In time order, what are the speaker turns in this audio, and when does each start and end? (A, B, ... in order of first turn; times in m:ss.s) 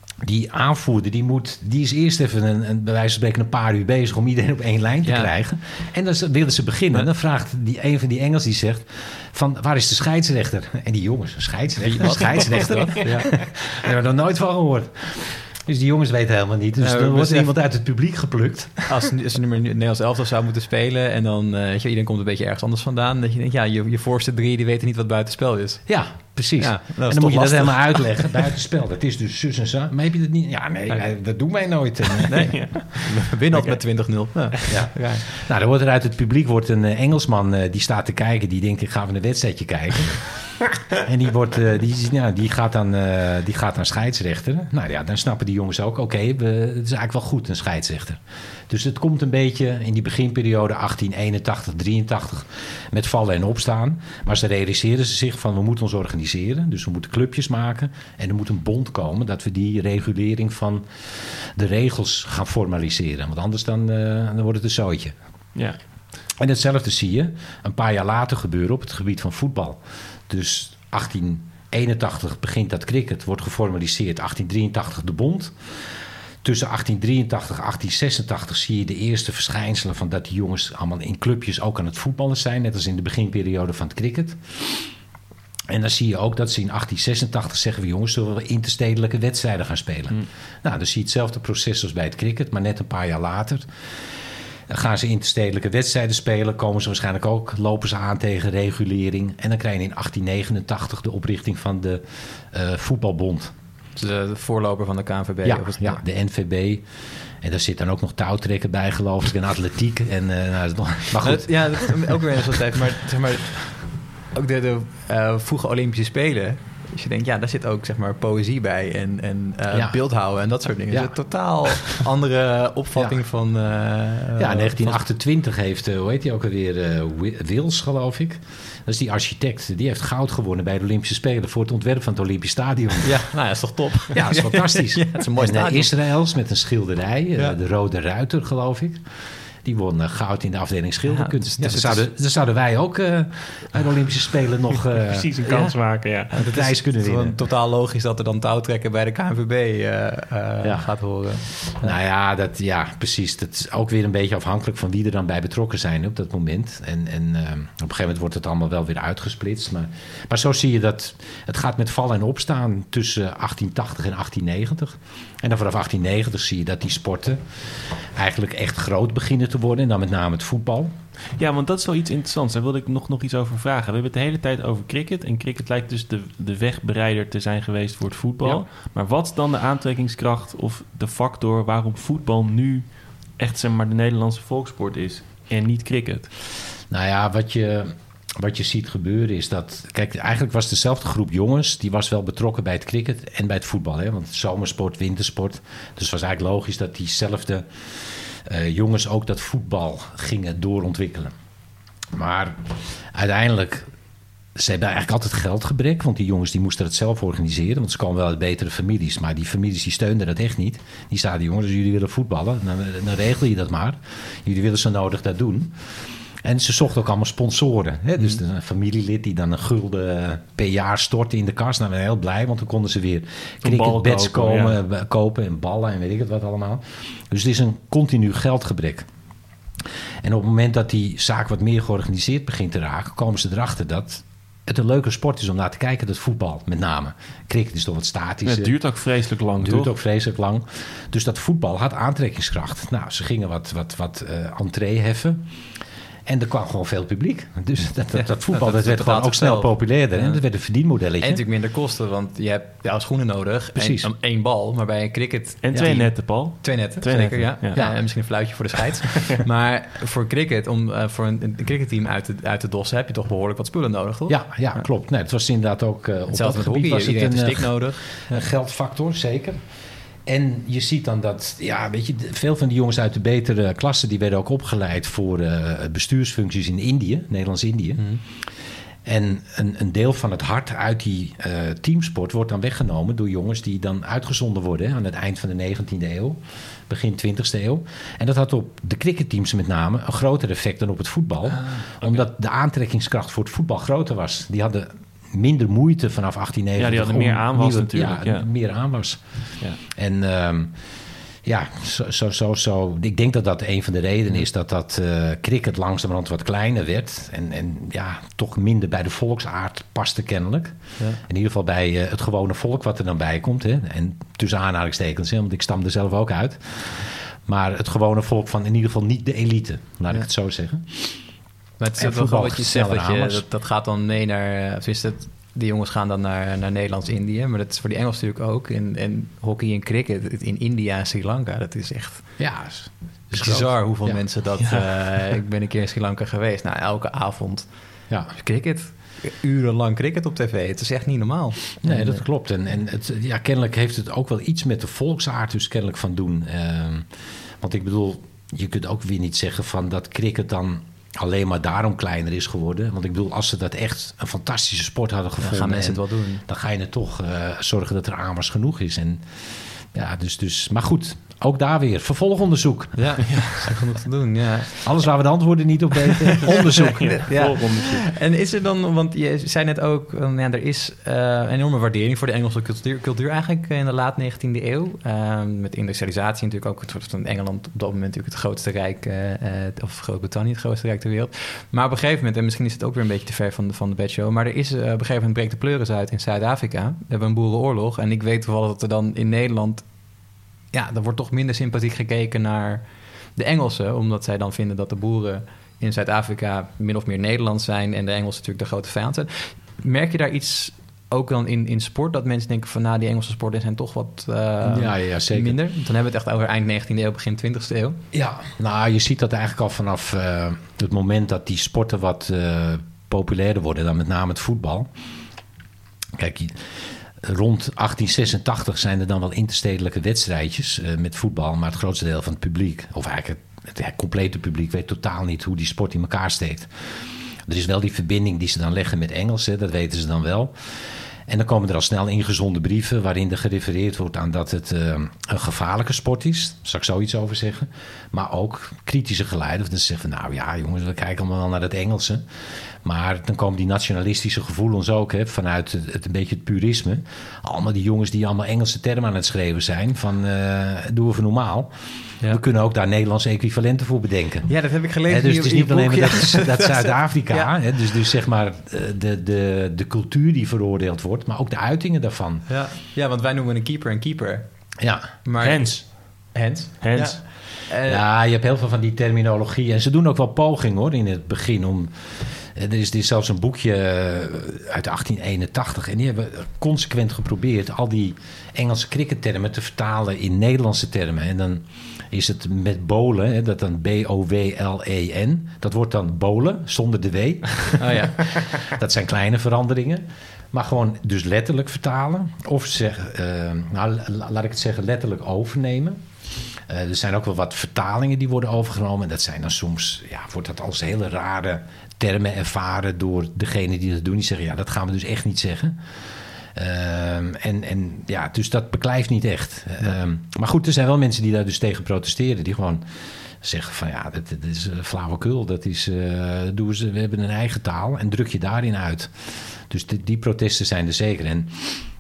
0:00.2-0:18.9 A
0:05.0-0:05.3 B
0:11.8-0:13.3 B
0:16.8-0:17.5 B
0:18.9-0:25.8 B
0:25.9-0:32.6 A
0:26.6-0:28.4 B
0:32.3-0:35.2 B
0:32.5-0:32.8 C
0:34.7-1:05.1 A
1:06.4-1:15.5 A
1:16.4-1:24.5 A
1:25.7-1:33.7 A
1:34.7-1:43.5 A
1:44.0-1:46.0 B
1:45.4-1:46.8 A
1:47.4-1:52.2 A
1:51.2-2:05.0 B
1:59.7-2:00.0 A
2:04.4-2:13.1 A
2:13.0-2:15.9 B
2:14.1-2:19.0 A
2:19.6-2:25.3 A
2:21.1-2:22.0 B
2:24.9-2:26.3 C
2:25.4-2:25.7 B
2:26.3-2:31.9 B
2:26.4-2:27.4 A
2:30.6-2:30.9 A
2:31.8-2:47.4 A
2:48.1-2:50.9 A
2:51.4-3:02.8 C
3:03.4-3:06.3 C
3:06.9-3:21.3 A
3:22.1-3:23.9 A
3:24.5-3:35.8 A
3:36.4-3:49.1 A
3:43.6-3:44.8 C
3:50.2-3:58.7 A
3:58.4-3:59.9 C
3:59.6-4:05.4 A
4:06.2-4:11.4 A
4:08.2-4:10.4 B
4:11.2-4:24.4 B
4:13.7-4:14.1 A
4:15.6-4:17.8 C
4:17.7-4:18.0 A
4:24.3-4:29.6 A
4:26.3-4:28.4 B
4:30.2-4:38.0 A
4:39.0-4:59.2 A
4:51.5-4:52.2 C
4:56.8-4:58.5 C
4:59.9-5:00.7 A
5:01.4-5:21.2 A
5:21.8-5:32.2 B
5:22.0-5:23.4 A
5:32.4-5:34.2 A
5:33.3-5:37.7 B
5:38.3-5:42.2 B
5:41.8-5:47.1 A
5:47.6-5:59.2 A
5:55.4-5:56.4 B
5:59.9-6:03.2 A
6:03.0-6:04.8 B
6:03.3-6:03.6 C
6:04.8-6:07.2 A
6:06.3-6:29.8 B
6:06.5-6:08.0 C
6:30.7-6:32.8 B
6:33.4-6:48.0 B
6:44.6-6:45.6 A
6:48.1-6:54.9 A
6:56.1-6:56.7 A
6:57.2-7:06.7 A
7:07.5-7:10.5 A
7:11.3-7:22.2 A
7:22.8-7:31.7 A
7:32.3-7:34.5 A
7:34.5-7:37.5 B
7:35.1-7:42.4 A
7:42.5-7:44.4 B
7:44.8-7:45.1 A
7:45.2-7:48.0 B
7:45.4-7:45.8 C
7:46.8-7:47.2 C
7:47.8-8:16.0 A
8:07.8-8:08.2 B
8:16.7-8:25.8 A
8:26.5-8:32.8 A
8:33.4-8:39.1 A
8:39.7-8:41.7 A